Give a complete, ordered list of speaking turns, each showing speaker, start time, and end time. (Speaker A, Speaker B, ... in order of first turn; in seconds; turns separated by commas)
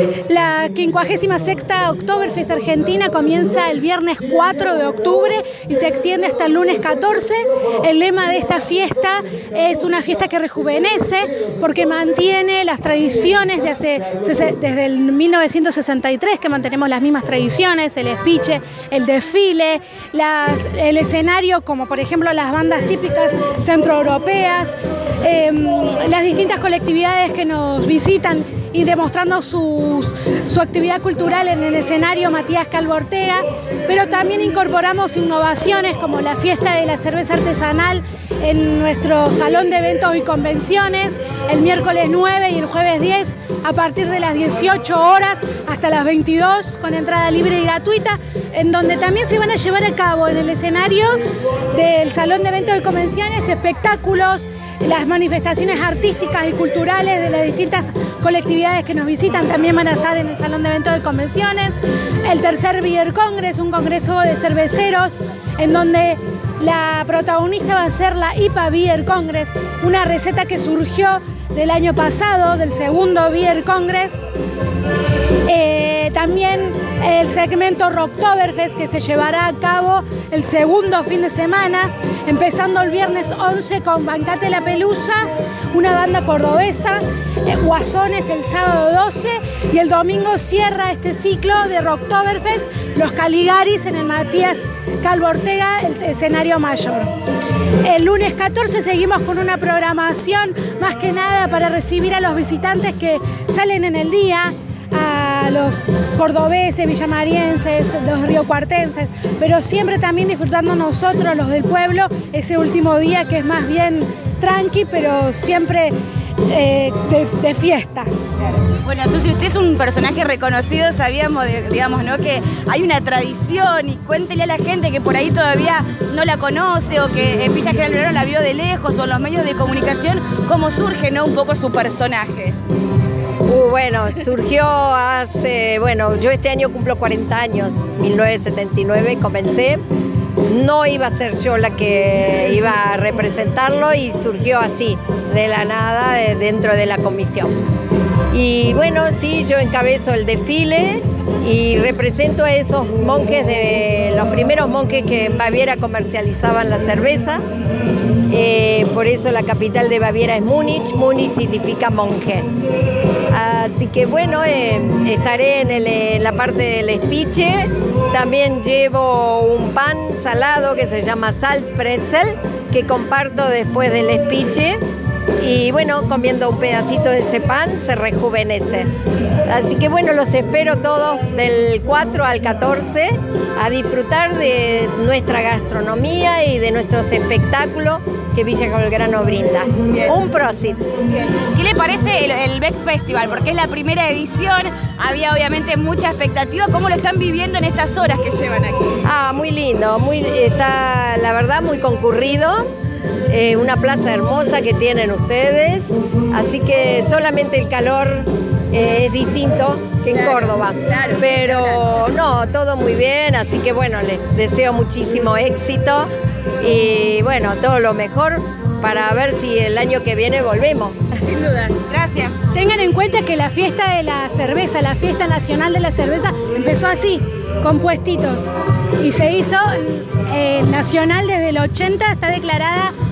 Speaker A: 0.2-74.2, Speaker A: 75.5-97.1, Speaker A: 97.8-118.1, Speaker B: 118.5-132.6, Speaker C: 133.4-139.8, Speaker C: 140.4-147.5, Speaker C: 148.3-157.4, Speaker C: 158.3-162.5, Speaker C: 163.3-174.8, Speaker C: 175.4-178.9, Speaker C: 179.4-190.8, Speaker B: 191.1-199.0, Speaker C: 199.0-202.7, Speaker C: 203.3-216.1, Speaker B: 210.1-212.0, Speaker C: 216.6-221.0, Speaker B: 221.2-222.4, Speaker A: 222.5-232.9